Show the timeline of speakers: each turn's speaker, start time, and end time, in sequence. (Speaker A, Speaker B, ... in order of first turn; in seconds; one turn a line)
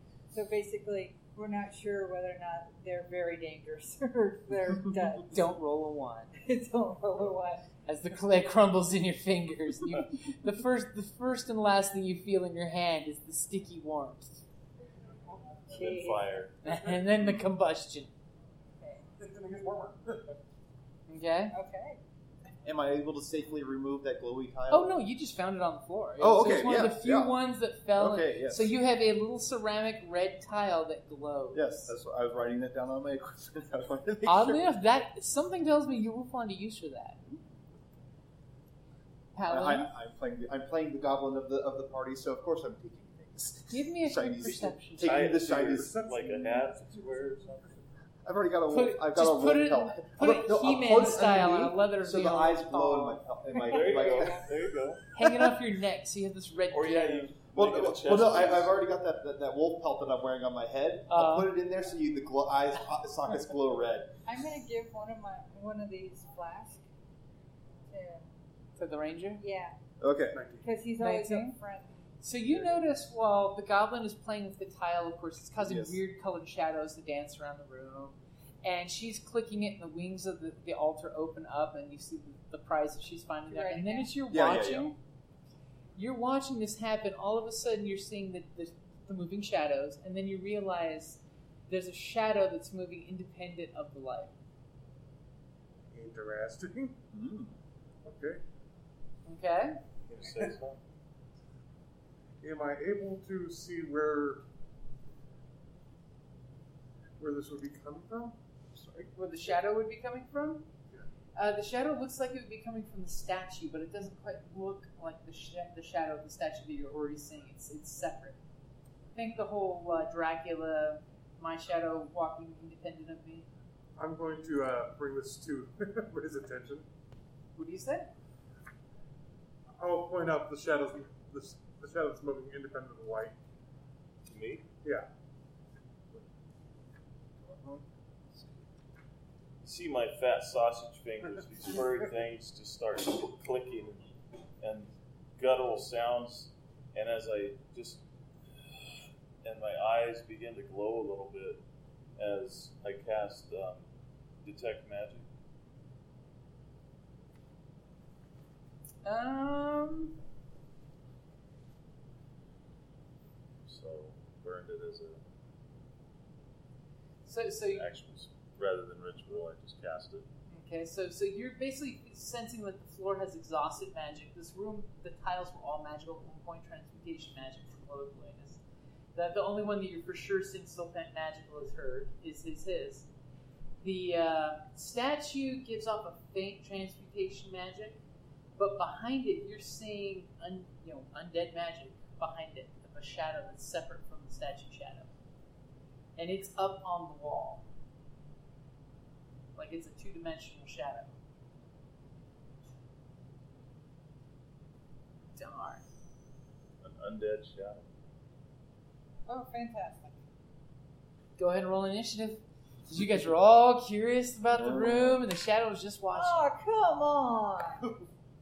Speaker A: 0.3-5.5
Speaker B: 5.3-6.3
Speaker A: 6.4-7.7
Speaker B: 7.9-14.4
Speaker A: 15.3-16.3
Speaker C: 15.7-16.5
Speaker B: 16.6-18.1
Speaker D: 19.2-20.4
Speaker B: 21.1-21.5
Speaker A: 21.5-22.0
Speaker E: 22.6-24.9
Speaker B: 24.7-31.9
Speaker E: 26.2-27.4
Speaker E: 27.9-28.8
Speaker E: 31.5-34.8
Speaker B: 34.3-37.2
Speaker B: 39.4-39.9
Speaker E: 39.5-46.3
Speaker B: 43.7-45.2
Speaker C: 45.0-47.8
Speaker D: 45.1-47.3
Speaker E: 48.2-54.5
Speaker B: 48.7-53.2
Speaker C: 53.5-55.0
Speaker A: 54.0-54.4
Speaker B: 55.1-57.3
Speaker C: 56.7-58.7
Speaker E: 57.5-64.1
Speaker B: 61.1-61.5
Speaker A: 64.3-66.8
Speaker A: 67.9-68.3
Speaker B: 68.8-69.4
Speaker A: 69.4-69.8
Speaker E: 70.0-70.4
Speaker D: 70.3-70.7
Speaker A: 70.6-72.7
Speaker B: 71.0-71.6
Speaker B: 72.2-85.0
Speaker E: 75.6-76.0
Speaker A: 83.5-84.1
Speaker E: 84.3-84.9
Speaker B: 86.0-94.3
Speaker D: 95.9-97.0
Speaker E: 97.1-97.6
Speaker D: 98.0-98.4
Speaker B: 99.3-99.8
Speaker C: 100.1-100.8
Speaker D: 102.4-104.5
Speaker D: 107.2-108.4
Speaker E: 108.8-109.1
Speaker B: 109.1-110.7
Speaker B: 111.3-118.4
Speaker B: 119.2-123.5
Speaker D: 124.0-126.9
Speaker B: 127.6-128.1
Speaker D: 129.8-133.4
Speaker C: 134.3-134.7
Speaker D: 134.8-135.1
Speaker E: 137.4-137.8
Speaker C: 139.6-148.0
Speaker C: 148.7-151.6
Speaker C: 152.2-153.8
Speaker C: 154.4-155.3
Speaker B: 159.1-160.2
Speaker C: 163.7-165.2
Speaker B: 167.3-167.9
Speaker C: 167.7-170.3
Speaker B: 170.5-178.6
Speaker B: 179.2-183.1
Speaker B: 183.8-188.0
Speaker B: 188.6-195.1
Speaker B: 196.2-197.7
Speaker B: 199.6-201.1
Speaker B: 205.3-205.8
Speaker C: 206.8-207.8
Speaker A: 209.3-210.2
Speaker B: 211.4-216.4
Speaker E: 214.6-215.2
Speaker A: 216.1-217.9